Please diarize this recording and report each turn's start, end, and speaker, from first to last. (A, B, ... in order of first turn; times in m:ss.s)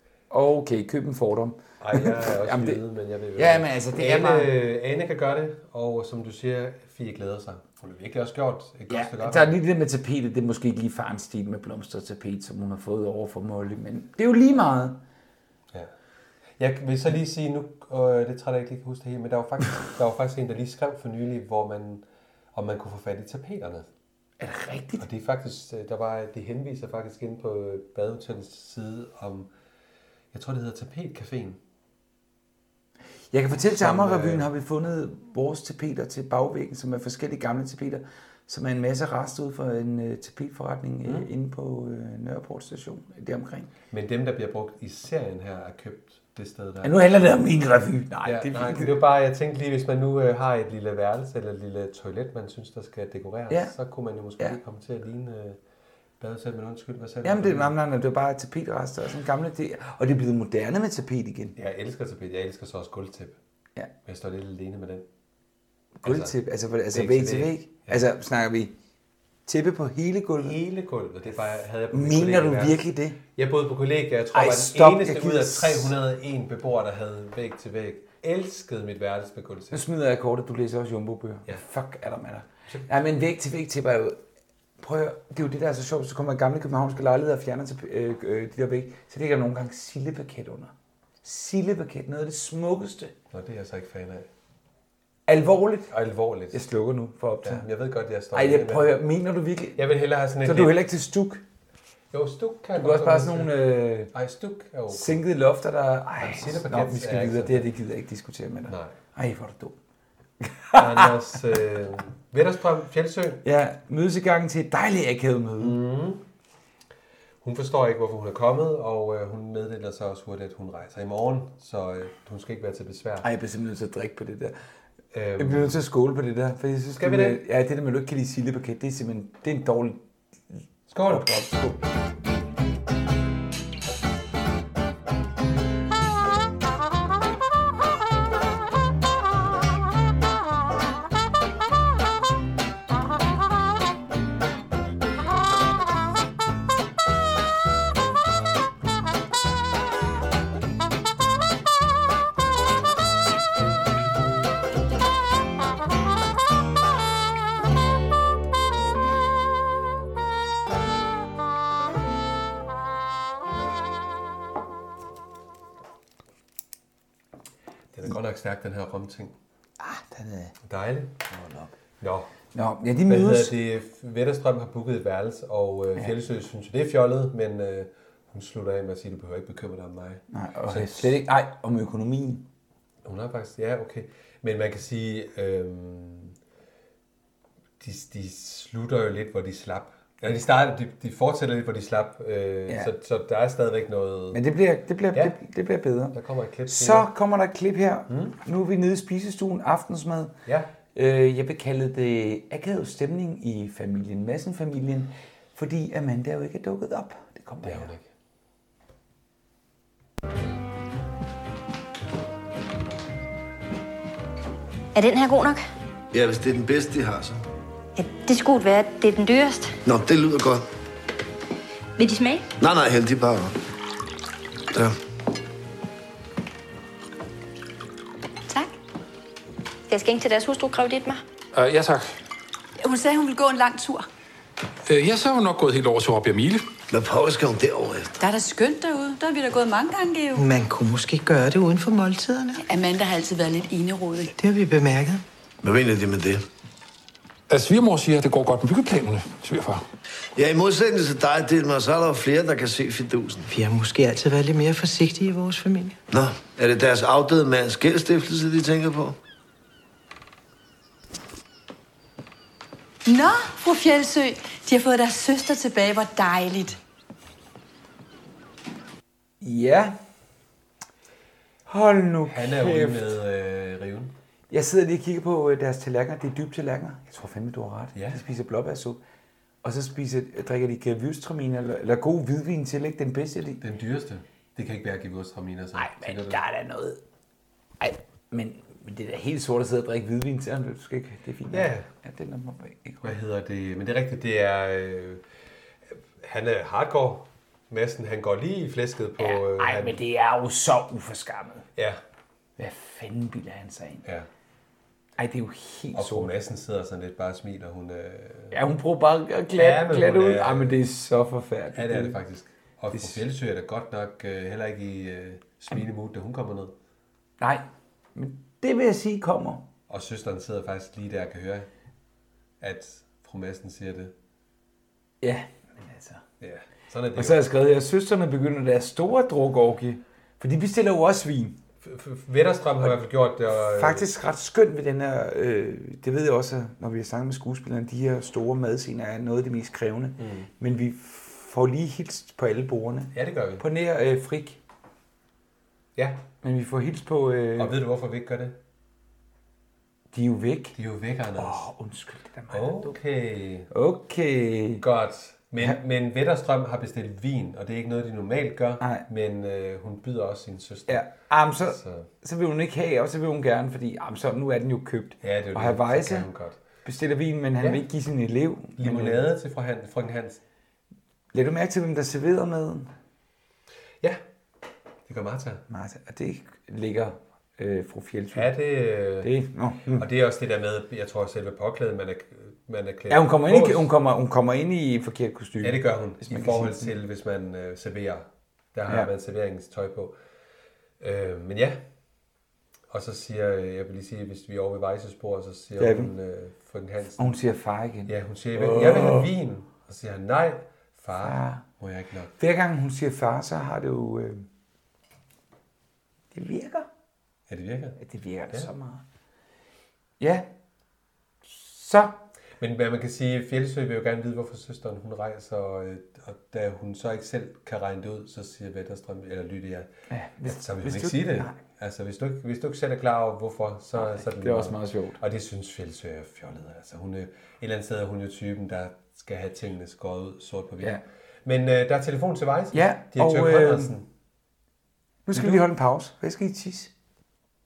0:00.3-0:02.8 A
0:01.8-0:09.5 B
0:03.4-0:04.5 A
0:08.9-0:15.0 A
0:16.6-0:23.9 B
0:24.4-0:25.1 A
0:25.0-0:29.5 B
0:30.3-0:31.6 B
0:33.3-0:43.7 A
0:33.6-0:34.5 B
0:43.9-0:47.0 B
0:46.8-0:49.0 A
0:48.2-0:55.6 B
0:53.5-0:53.8 A
0:56.2-0:57.8 B
0:57.2-1:01.6 A
1:01.6-1:03.4 B
1:04.1-1:05.1 B
1:06.0-1:08.7 A
1:06.0-1:06.4 B
1:06.9-1:08.0 B
1:09.5-1:10.6 A
1:10.4-1:12.8 B
1:11.9-1:13.2 A
1:13.4-1:19.8 B
1:14.3-1:15.9 A
1:19.7-1:24.2 A
1:24.8-1:33.1 A
1:33.3-1:34.3 B
1:35.3-1:35.9 A
1:35.9-1:36.6 B
1:36.5-1:37.7 A
1:37.4-1:39.0 B
1:38.3-1:39.8 A
1:39.8-1:40.8 B
1:40.4-1:41.4 A
1:42.1-1:43.6 B
1:42.8-1:44.1 A
1:44.1-1:45.2 B
1:44.9-1:49.8 A
1:46.2-1:47.7 B
1:48.7-1:49.0 B
1:50.4-1:51.1 A
1:50.8-1:53.4 B
1:53.4-1:55.8 A
1:55.6-1:56.2 B
1:57.4-2:03.3 B
2:03.2-2:04.6 A
2:05.1-2:05.8 B
2:05.4-2:11.8 A
2:06.9-2:07.4 B
2:10.9-2:11.3 B
2:47.9-2:49.4 B
2:49.8-2:50.6 A
2:50.6-2:51.1 B
2:51.3-2:51.7 A
2:52.0-2:52.3 B
2:52.5-2:53.6 A
2:53.1-3:01.2 B
3:00.3-3:02.5 A
3:03.0-3:06.4 B
3:07.8-3:14.4 B
3:14.3-3:16.2 A
3:16.1-3:17.1 B
3:16.7-3:20.4 A
3:18.1-3:18.4 B
3:20.5-3:20.7 B
3:20.9-3:27.9 A
3:27.6-3:28.1 B
3:35.0-3:35.6 C
3:36.1-3:37.4 D
3:38.0-3:39.8 C
3:39.8-3:40.7 D
3:42.0-3:42.4 C
3:42.6-3:43.6 D
3:49.9-3:51.2 C
3:51.5-3:52.1 E
3:52.8-3:54.1 F
3:54.9-3:56.7 E
3:56.9-3:58.1 D
3:58.2-4:00.4 F
4:00.4-4:02.6 G
4:02.6-4:04.3 F
4:04.4-4:05.2 G
4:05.6-4:06.4 D
4:07.5-4:09.8 E
4:10.4-4:13.5 D
4:13.5-4:16.0 G
4:16.1-4:19.2 D
4:23.1-4:26.8 F
4:29.4-4:30.0 A
4:31.7-4:33.2 A
4:32.3-4:34.2 B
4:34.5-4:39.0 A
4:38.0-4:38.2 B
4:39.6-4:43.6 A
4:43.6-4:46.4 B
4:45.8-4:47.0 A
4:47.8-4:53.2 A
4:51.5-4:51.9 B
4:53.0-4:55.2 B
4:56.1-5:00.0 B
4:59.2-5:01.7 A
5:01.8-5:02.0 B
5:02.6-5:04.1 A
5:05.2-5:06.3 A
5:05.9-5:08.6 B
5:08.5-5:12.2 A
5:09.6-5:10.8 B
5:11.7-5:16.7 B
5:12.9-5:13.2 A
5:17.4-5:19.7 A
5:19.9-5:21.7 B
5:22.6-5:24.1 B
5:25.2-5:26.2 A
5:26.4-5:27.4 B
5:27.2-5:31.6 A
5:31.8-5:34.1 B
5:33.5-5:44.6 A
5:40.2-5:40.5 B
5:43.1-5:43.6 B
5:46.0-5:46.2 B
5:46.4-5:47.8 A
5:47.6-5:48.6 B
5:50.1-5:50.8 A
5:50.8-5:51.7 B
5:51.4-5:52.9 A
5:52.5-5:53.7 B
5:53.7-5:54.8 A
5:54.8-6:01.1 B
5:58.8-5:59.1 A
6:00.9-6:06.3 A
6:01.7-6:02.1 B
6:05.2-6:06.6 B
6:06.8-6:09.2 A
6:08.8-6:10.4 B
6:11.3-6:12.9 A
6:15.1-6:15.6 B
6:15.7-6:18.5 A
6:18.3-6:19.3 B
6:19.2-6:20.1 A
6:19.9-6:23.9 B
6:23.1-6:27.0 A
6:25.6-6:30.2 B
6:31.0-6:31.8 B
6:32.9-6:37.4 B
6:35.8-6:36.1 A
6:37.2-6:39.3 A
6:38.1-6:42.3 B
6:41.2-6:41.6 A
6:42.4-6:44.5 A
6:46.3-6:46.9 A
6:47.5-6:48.0 B
6:48.0-6:49.0 A
6:50.2-6:50.5 A
6:51.5-6:52.2 A
6:52.6-6:59.9 B
7:00.1-7:01.6 A
7:00.4-7:14.1 B
7:04.0-7:05.2 A
7:12.7-7:13.9 A
7:15.3-7:16.9 A
7:15.3-7:15.7 B